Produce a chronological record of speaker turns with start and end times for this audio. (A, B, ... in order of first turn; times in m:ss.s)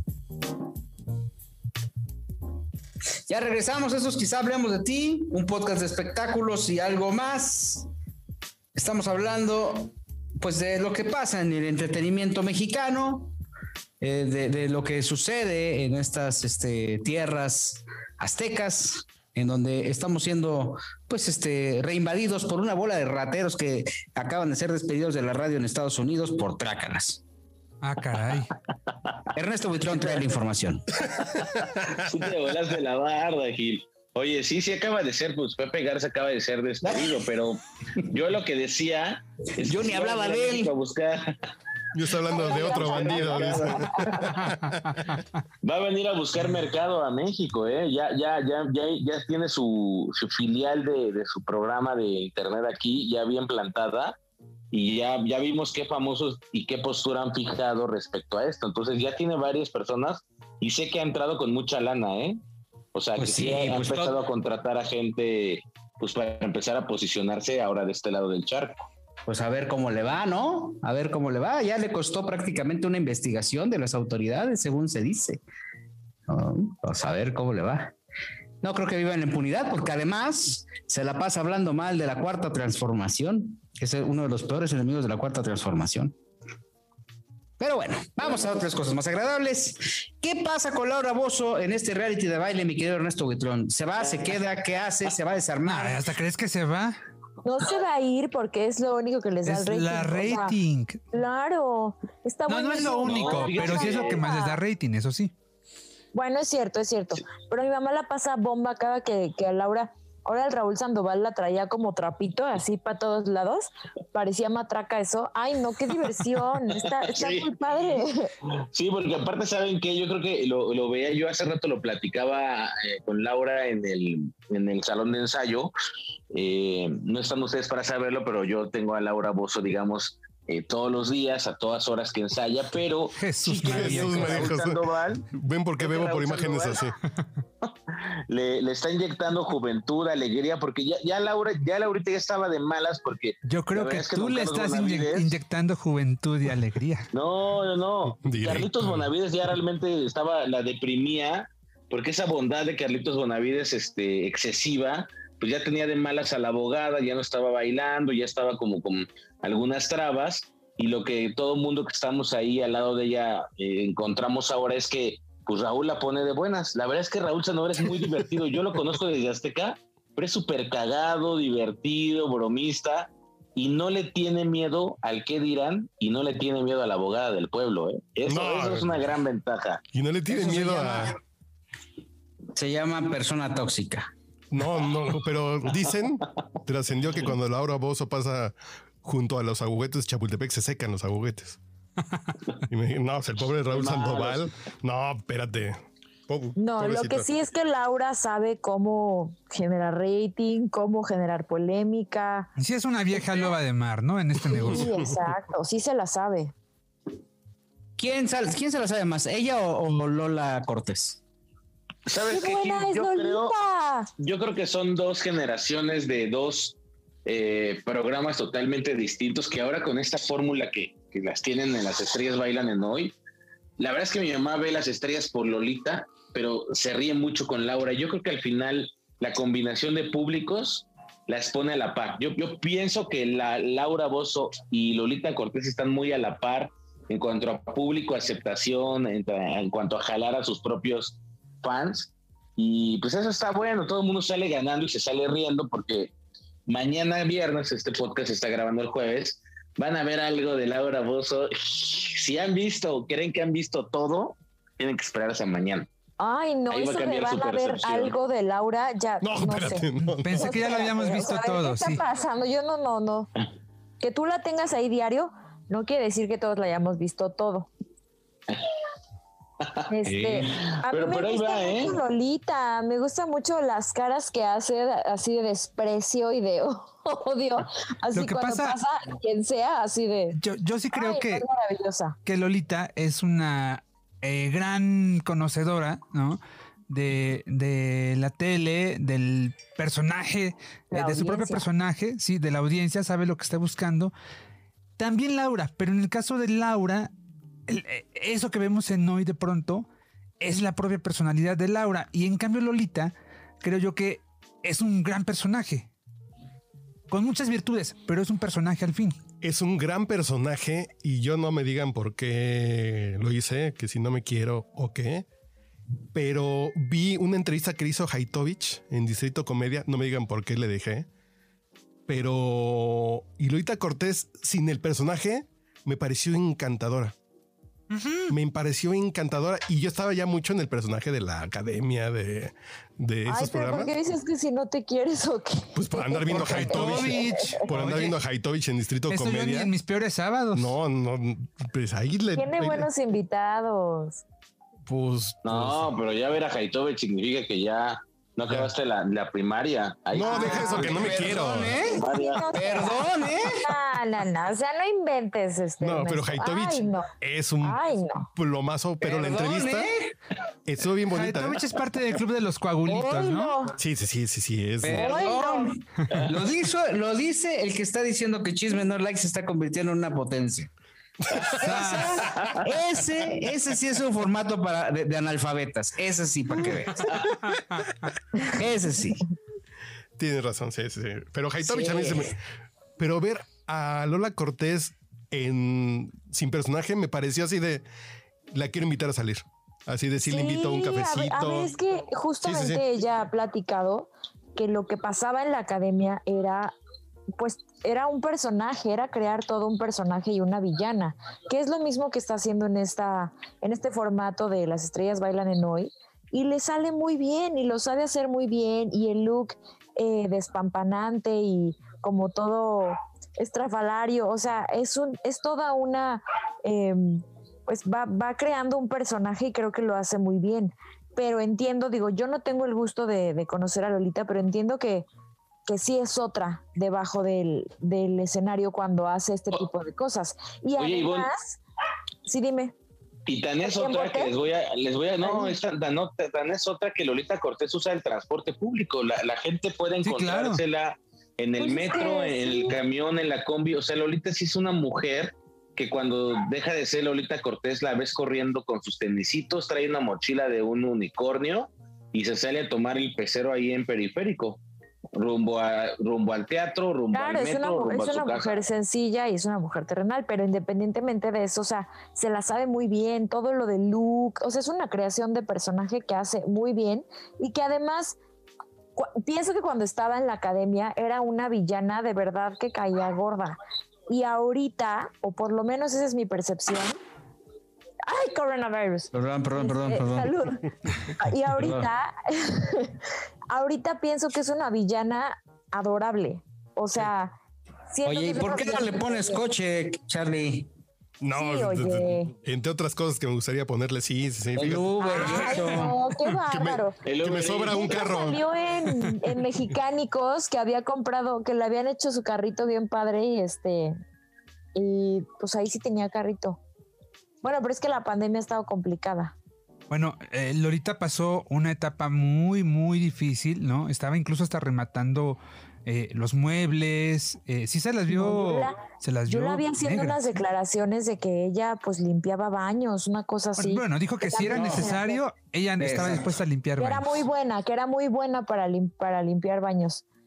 0:03.3-0:07.9 A
0:08.7-0:13.3 A
0:14.0-0:27.2 A
0:27.8-0:28.5 B
0:29.3-0:31.0 A
0:31.1-0:41.4 C
0:36.8-0:37.1 A
0:39.6-0:40.7 A
0:41.9-0:45.0 D
0:42.3-0:44.5 C
0:42.3-0:44.4 E
0:45.6-0:54.1 C
0:54.7-1:02.4 C
1:02.9-1:08.8 C
1:03.2-1:04.2 A
1:09.2-1:15.4 A
1:16.3-1:17.9 A
1:18.6-1:26.2 A
1:27.6-1:36.0 A
1:35.6-1:37.0 B
1:37.4-1:40.6 E
1:39.4-1:41.0 B
1:41.1-1:44.6 E
1:42.5-1:45.3 B
1:43.0-1:44.2 C
1:46.1-1:58.3 E
1:56.8-1:57.5 C
1:58.6-2:05.7 C
2:06.3-2:15.3 C
2:13.1-2:14.6 B
2:13.6-2:14.8 D
2:15.3-2:17.0 D
2:15.8-2:16.9 C
2:17.6-2:25.3 C
2:23.4-2:27.1 B
2:27.1-2:59.8 C
2:28.1-2:29.1 D
2:58.3-2:59.0 D
2:59.9-3:01.2 D
3:00.3-3:01.1 A
3:02.5-3:04.1 A
3:04.5-3:11.6 D
3:12.7-3:17.2 D
3:13.7-3:14.5 C
3:16.6-3:22.5 E
3:22.6-3:24.9 B
3:24.5-3:26.5 E
3:24.5-3:24.9 D
3:28.0-3:31.2 A
3:32.0-3:33.5 C
3:32.2-3:34.1 E
3:34.2-3:43.1 C
3:43.8-4:06.1 C
4:06.7-4:15.9 C
4:16.2-4:19.8 E
4:16.7-4:18.1 C
4:19.2-4:20.5 D
4:20.0-4:22.0 B
4:20.4-4:23.3 E
4:24.0-4:27.7 E
4:29.6-4:32.0 C
4:29.9-4:40.4 E
4:38.1-4:38.8 B
4:40.3-4:41.4 B
4:40.9-4:42.2 E
4:42.2-4:54.1 B
4:50.9-4:51.7 E
4:55.0-4:57.1 B
4:57.7-4:59.9 B
5:00.4-5:05.9 B
5:07.1-5:09.2 B
5:09.4-5:15.3 D
5:16.1-5:21.1 D
5:22.1-5:27.1 D
5:27.9-5:28.4 B
5:28.3-5:33.9 D
5:33.3-5:37.6 E
5:35.7-5:39.7 D
5:36.3-5:38.2 B
5:39.1-5:40.8 B
5:40.5-5:42.9 D
5:42.3-5:44.2 E
5:44.9-5:45.9 D
5:45.4-5:52.5 C
5:50.1-5:51.8 D
5:50.2-5:53.7 A
5:50.3-5:50.8 E
5:51.8-5:57.1 E
5:55.8-5:57.8 D
5:57.6-5:58.3 E
5:58.3-5:59.9 D
5:59.0-6:00.1 A
6:00.6-6:01.7 D
6:01.1-6:03.6 B
6:02.8-6:03.7 E
6:03.8-6:05.3 D
6:04.8-6:10.7 A
6:04.9-6:05.7 E
6:11.2-6:11.6 D
6:11.4-6:17.1 A
6:11.6-6:12.2 B
6:16.7-6:18.0 B
6:17.0-6:17.4 C
6:18.3-6:19.2 A
6:20.2-6:22.4 D
6:21.6-6:22.4 A
6:23.0-6:27.8 D
6:28.5-6:31.8 D
6:30.2-6:36.7 E
6:32.4-6:32.8 D
6:37.4-7:05.1 E
7:05.7-7:11.6 E
7:10.8-7:11.3 C
7:12.2-7:12.7 E
7:13.2-7:34.6 C
7:13.6-7:14.3 E
7:15.2-7:15.6 E
7:20.0-7:20.6 B
7:21.6-7:22.8 E
7:35.1-7:38.6 C
7:37.1-7:48.2 E
7:49.0-7:57.0 E
7:58.0-8:03.0 E
7:59.1-8:00.3 A
8:01.5-8:01.9 A
8:03.5-8:07.4 E
8:07.9-8:09.4 E
8:08.0-8:10.7 A
8:11.2-8:15.5 D
8:11.3-8:12.3 E
8:14.5-8:15.9 A
8:15.0-8:17.0 E
8:16.3-8:18.4 D
8:17.0-8:18.0 C
8:17.7-8:24.0 E
8:24.7-8:26.6 E
8:27.4-8:29.4 E
8:29.9-8:40.2 B
8:38.1-8:45.2 E
8:43.6-8:47.2 B
8:44.4-8:44.9 A
8:45.8-8:46.4 A
8:46.8-8:50.0 E